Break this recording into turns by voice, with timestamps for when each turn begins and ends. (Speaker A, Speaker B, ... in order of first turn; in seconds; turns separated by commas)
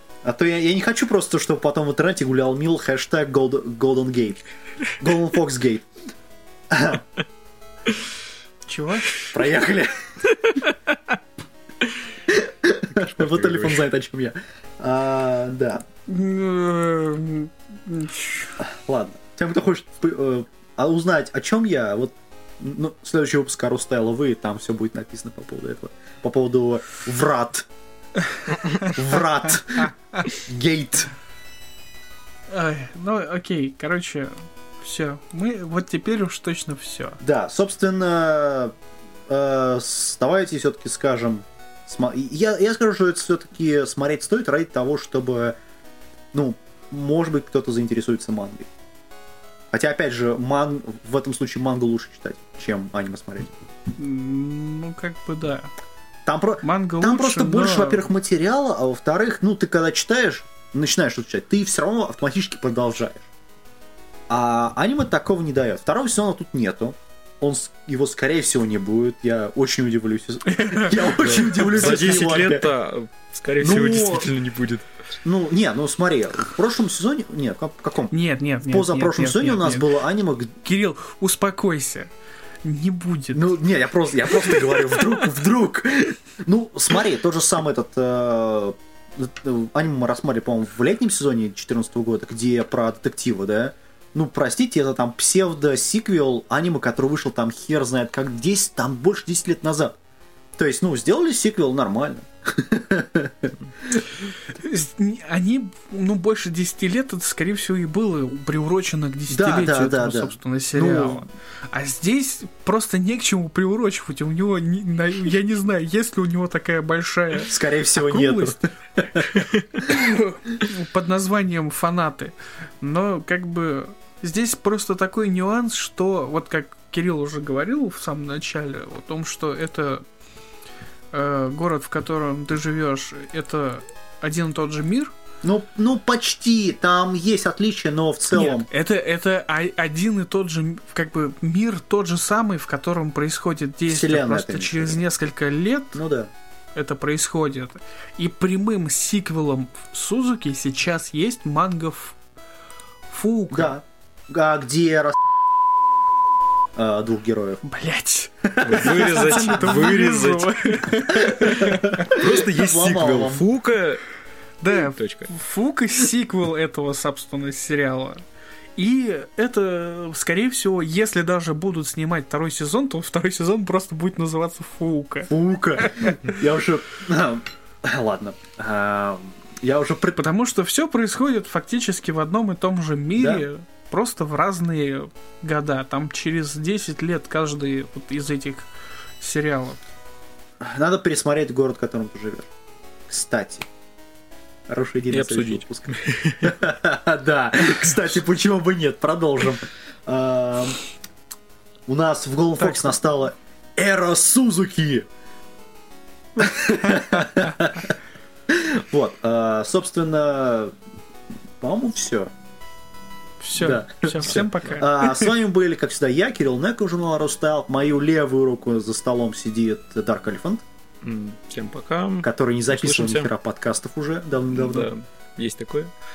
Speaker A: 0.2-4.4, Speaker A: 5.0-5.9, Speaker A: 6.7-7.0, Speaker B: 8.7-9.3, Speaker A: 9.3-9.9, Speaker A: 12.3-15.9, Speaker C: 13.2-13.7, Speaker B: 16.1-18.6, Speaker A: 18.6-27.7, Speaker A: 28.8-31.1, Speaker B: 32.5-37.2, Speaker A: 37.2-38.7, Speaker A: 39.3-45.6, Speaker A: 46.3-48.7, Speaker A: 49.7-53.5, Speaker B: 54.0-55.7, Speaker A: 56.2-63.3, Speaker B: 56.6-58.1, Speaker A: 64.3-72.7, Speaker B: 70.5-72.5, Speaker C: 71.2-74.9, Speaker A: 73.6-74.3, Speaker A: 75.2-78.1, Speaker B: 78.1-79.9, Speaker A: 78.7-80.5, Speaker B: 80.6-82.1, Speaker B: 82.6-83.5, Speaker A: 83.3-100.0, Speaker A: 100.6-103.5, Speaker B: 104.5-118.6, Speaker A: 109.3-111.3, Speaker A: 117.5-119.2, Speaker B: 119.8-130.0, Speaker B: 131.1-135.1, Speaker A: 135.4-138.7, Speaker B: 138.3-146.0, Speaker A: 143.9-145.0, Speaker A: 145.9-146.3, Speaker B: 146.8-152.2, Speaker B: 153.1-153.7, Speaker A: 153.5-155.2, Speaker A: 156.8-157.6, Speaker B: 157.6-162.1, Speaker A: 158.4-159.9, Speaker C: 158.6-160.5, Speaker A: 161.1-163.5, Speaker C: 161.7-164.0, Speaker B: 164.6-168.2, Speaker C: 164.9-165.3, Speaker B: 168.8-175.3, Speaker A: 175.3-180.2, Speaker B: 175.8-176.1, Speaker B: 180.2-188.7, Speaker A: 183.2-183.4, Speaker B: 189.2-189.8, Speaker A: 190.6-192.5, Speaker A: 193.1-193.7, Speaker A: 194.7-200.8, Speaker C: 195.1-196.6, Speaker A: 201.9-205.1, Speaker A: 206.4-208.0, Speaker A: 208.5-210.7, Speaker A: 211.6-212.3, Speaker B: 213.4-215.3, Speaker A: 213.6-220.6, Speaker C: 214.2-214.8, Speaker C: 221.0-223.3, Speaker A: 222.2-224.9, Speaker C: 224.6-225.9